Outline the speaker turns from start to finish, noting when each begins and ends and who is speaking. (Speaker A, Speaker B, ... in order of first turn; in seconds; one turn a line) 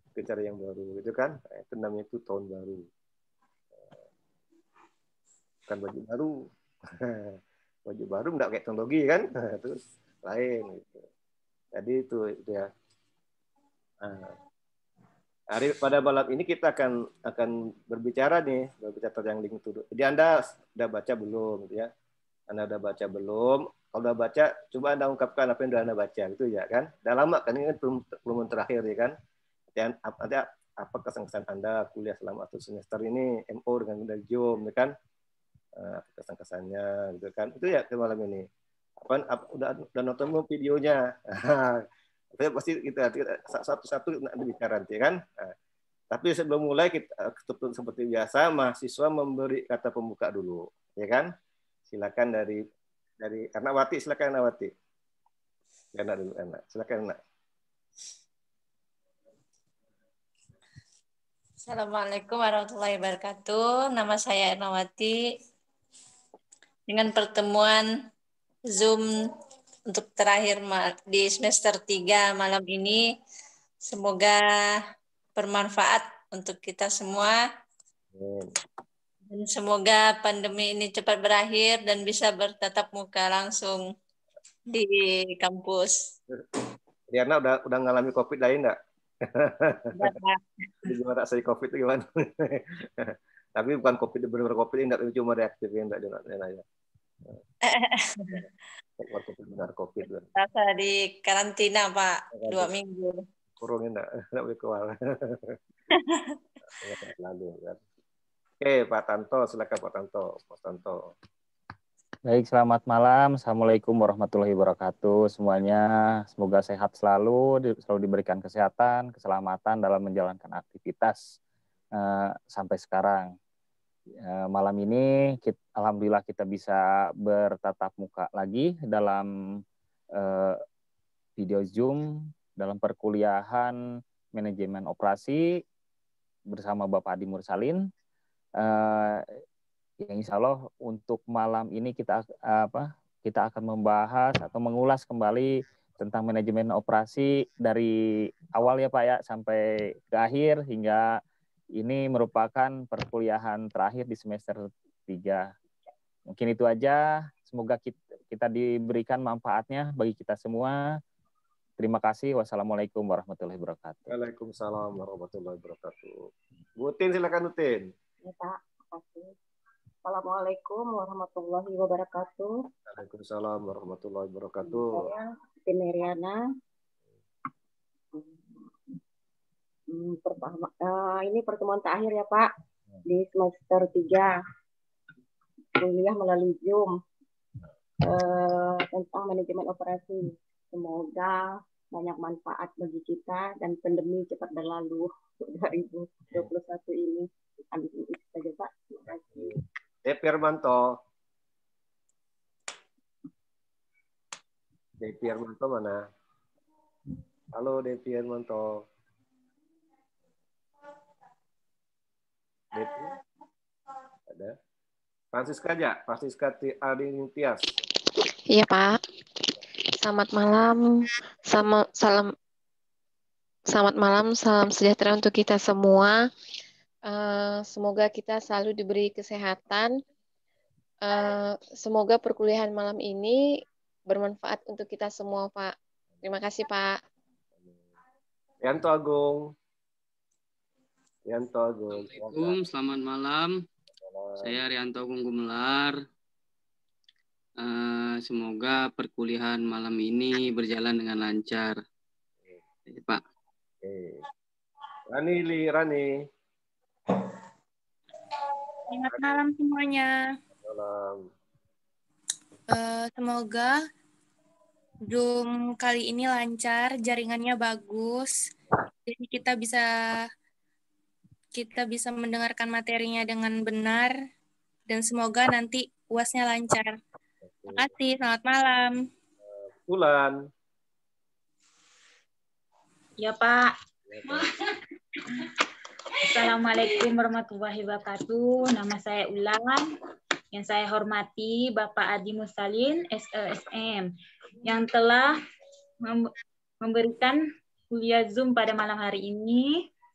Speaker A: 0.1-2.9
Speaker A: 5.7-6.3
Speaker A: 6.9-7.3
Speaker A: 7.9-11.0
Speaker A: 11.8-12.7
Speaker A: 14.0-14.3
Speaker A: 15.5-21.9
Speaker A: 22.5-29.1
Speaker A: 29.8-34.9
Speaker A: 35.8-38.4
Speaker A: 39.0-41.8
Speaker A: 42.4-45.5
Speaker A: 46.1-51.3
Speaker A: 51.9-52.6
Speaker A: 53.2-54.7
Speaker A: 55.9-57.2
Speaker B: 61.6-65.2
Speaker B: 66.9-67.8
Speaker B: 68.7-69.0
Speaker B: 69.9-73.0
Speaker B: 73.9-74.4
Speaker B: 75.3-77.4
Speaker A: 78.1-78.5
Speaker B: 79.3-83.8
Speaker B: 84.7-86.0
Speaker A: 87.1-88.8
Speaker A: 89.3-90.1
Speaker B: 89.9-90.4
Speaker A: 90.8-96.6
Speaker B: 97.7-98.4
Speaker A: 99.0-100.3
Speaker B: 100.3-103.2
Speaker A: 102.3-102.7
Speaker A: 103.6-105.6
Speaker B: 105.9-106.3
Speaker A: 106.7-107.8
Speaker A: 108.6-111.0
Speaker C: 112.2-121.2
Speaker C: 122.0-123.3
Speaker C: 124.2-129.3
Speaker C: 130.2-130.6
Speaker C: 131.4-132.0
Speaker C: 132.6-133.8
Speaker C: 134.3-135.4
Speaker C: 136.5-137.8
Speaker C: 138.6-139.2
Speaker C: 140.0-147.9
Speaker C: 148.5-151.1
Speaker C: 151.8-155.5
Speaker C: 156.3-160.8
Speaker C: 161.8-164.1
Speaker A: 164.1-166.1
Speaker A: 166.8-167.8
Speaker D: 168.2-169.3
Speaker D: 170.0-172.5
Speaker A: 172.9-175.1
Speaker D: 174.6-176.4
Speaker D: 179.9-182.5
Speaker D: 183.1-184.3
Speaker D: 185.8-187.0
Speaker D: 188.0-199.5
Speaker A: 200.0-200.8
Speaker A: 205.0-206.0
Speaker A: 207.5-208.8
Speaker A: 212.7-213.1
Speaker A: 214.3-214.5
Speaker A: 215.3-217.7
Speaker E: 218.5-219.0
Speaker E: 220.0-222.3
Speaker E: 223.7-226.2
Speaker E: 227.1-229.9
Speaker E: 231.0-233.4
Speaker E: 234.1-235.7
Speaker E: 236.2-236.9
Speaker A: 238.6-239.4
Speaker A: 241.3-242.6
Speaker F: 241.9-243.5
Speaker A: 244.0-244.6
Speaker F: 244.4-246.0
Speaker F: 247.6-251.8
Speaker F: 252.9-253.2
Speaker A: 253.8-254.2
Speaker A: 255.1-256.1
Speaker G: 258.9-260.1
Speaker A: 260.6-261.3
Speaker G: 262.7-263.8
Speaker G: 265.1-268.4
Speaker G: 269.1-270.2
Speaker G: 271.6-274.1
Speaker G: 274.9-277.0
Speaker A: 277.4-277.9
Speaker G: 277.7-279.0
Speaker A: 279.6-280.4
Speaker H: 283.2-283.7
Speaker A: 284.1-284.5
Speaker H: 284.2-284.6
Speaker H: 286.2-289.8
Speaker H: 290.5-294.1
Speaker H: 294.6-295.3
Speaker H: 296.0-299.7